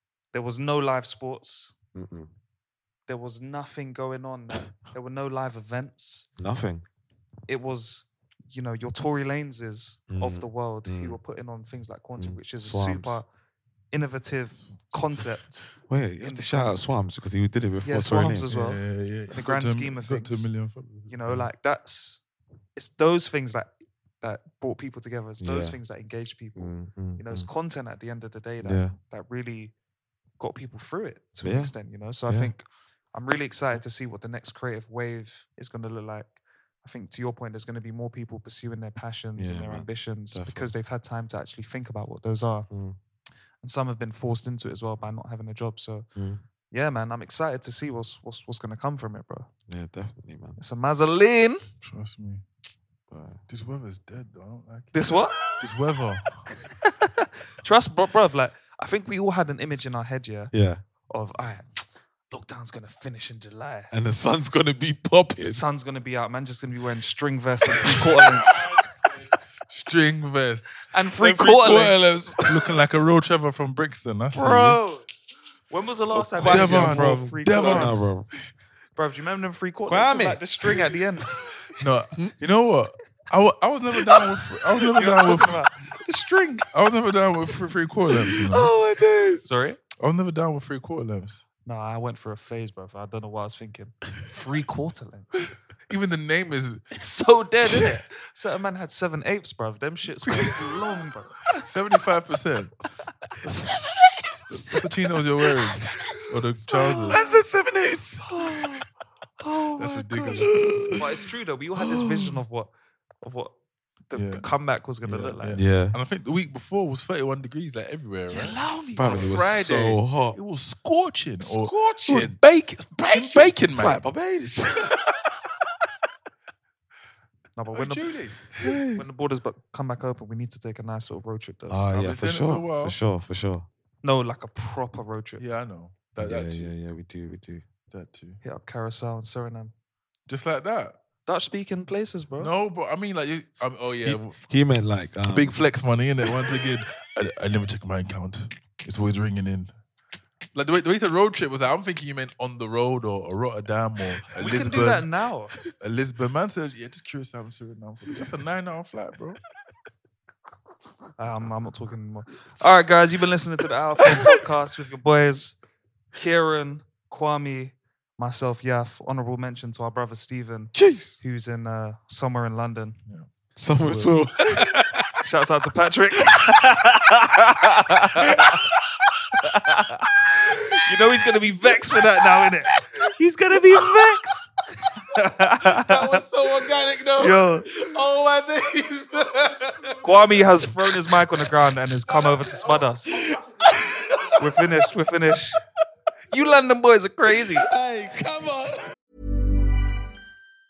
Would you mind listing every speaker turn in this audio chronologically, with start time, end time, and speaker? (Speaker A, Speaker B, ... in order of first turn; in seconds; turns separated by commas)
Speaker A: 0.3-1.7, Speaker B: 1.9-2.3, Speaker A: 3.1-6.3, Speaker B: 6.4-6.8, Speaker A: 7.5-13.2, Speaker B: 10.1-11.2, Speaker B: 12.2-13.2, Speaker A: 13.9-16.9, Speaker C: 14.7-15.0, Speaker B: 15.9-18.5, Speaker A: 17.8-20.5, Speaker C: 18.5-21.5, Speaker A: 21.1-22.2, Speaker A: 22.8-29.7, Speaker B: 25.4-25.8, Speaker B: 26.5-27.5, Speaker B: 28.6-29.0, Speaker A: 30.4-42.7, Speaker B: 31.4-32.5, Speaker B: 39.4-40.7, Speaker B: 42.7-43.0, Speaker A: 43.6-46.1, Speaker B: 46.1-46.4, Speaker A: 46.7-49.5, Speaker B: 49.7-50.6, Speaker A: 50.6-51.6, Speaker C: 51.8-52.4, Speaker B: 53.1-53.4, Speaker C: 53.5-54.9, Speaker A: 54.9-55.4, Speaker C: 55.5-56.5, Speaker A: 57.2-60.5, Speaker B: 60.5-60.8, Speaker A: 61.1-63.9, Speaker B: 63.9-65.6, Speaker A: 65.4-68.7, Speaker C: 69.7-70.7, Speaker A: 70.9-72.0, Speaker B: 71.2-72.8, Speaker C: 72.4-74.8, Speaker A: 74.3-75.0, Speaker A: 75.7-78.1, Speaker B: 76.1-78.3, Speaker C: 76.4-78.1, Speaker A: 78.9-81.3, Speaker B: 79.9-80.9, Speaker C: 81.8-85.6, Speaker A: 84.9-86.7, Speaker C: 86.7-88.7, Speaker B: 88.3-89.5, Speaker A: 89.4-89.8, Speaker C: 90.0-91.4, Speaker A: 91.7-95.3, Speaker C: 95.9-96.9, Speaker A: 97.0-101.4, Speaker C: 101.7-102.7, Speaker B: 103.4-108.9, Speaker C: 104.5-107.2, Speaker A: 107.1-107.4, Speaker B: 109.4-111.2, Speaker C: 109.8-111.0, Speaker A: 111.0-112.7, Speaker B: 111.8-112.4, Speaker A: 113.2-113.5, Speaker A: 114.1-115.6, Speaker C: 114.1-114.5, Speaker C: 115.0-124.0, Speaker B: 115.5-116.0, Speaker A: 118.3-119.3, Speaker B: 118.9-120.4, Speaker B: 121.4-122.4, Speaker B: 123.0-125.4, Speaker A: 127.5-128.1, Speaker C: 127.7-128.6, Speaker B: 128.6-129.0, Speaker A: 128.9-131.9, Speaker B: 131.7-133.7, Speaker C: 131.9-133.0, Speaker A: 134.0-135.4, Speaker C: 135.4-136.7, Speaker B: 136.2-137.6, Speaker C: 137.9-138.4, Speaker A: 138.4-139.7, Speaker C: 140.3-141.0, Speaker A: 141.2-142.5, Speaker C: 142.4-144.4, Speaker B: 144.0-145.5, Speaker C: 145.3-149.7, Speaker C: 150.5-155.1, Speaker A: 154.4-155.5, Speaker C: 155.7-159.4, Speaker A: 161.2-165.6, Speaker A: 166.1-172.9, Speaker B: 170.7-171.2, Speaker B: 173.6-175.2, Speaker C: 173.8-174.2, Speaker A: 175.2-178.6, Speaker B: 178.3-179.1, Speaker A: 179.4-180.1, Speaker B: 180.3-180.8, Speaker A: 180.7-184.5, Speaker B: 182.3-183.0, Speaker A: 185.0-186.2, Speaker B: 185.8-189.3, Speaker C: 185.9-190.6, Speaker A: 187.2-187.7, Speaker A: 190.0-193.1, Speaker B: 193.3-194.2, Speaker A: 194.4-195.6, Speaker A: 196.3-197.7, Speaker C: 197.7-198.7, Speaker B: 197.8-198.7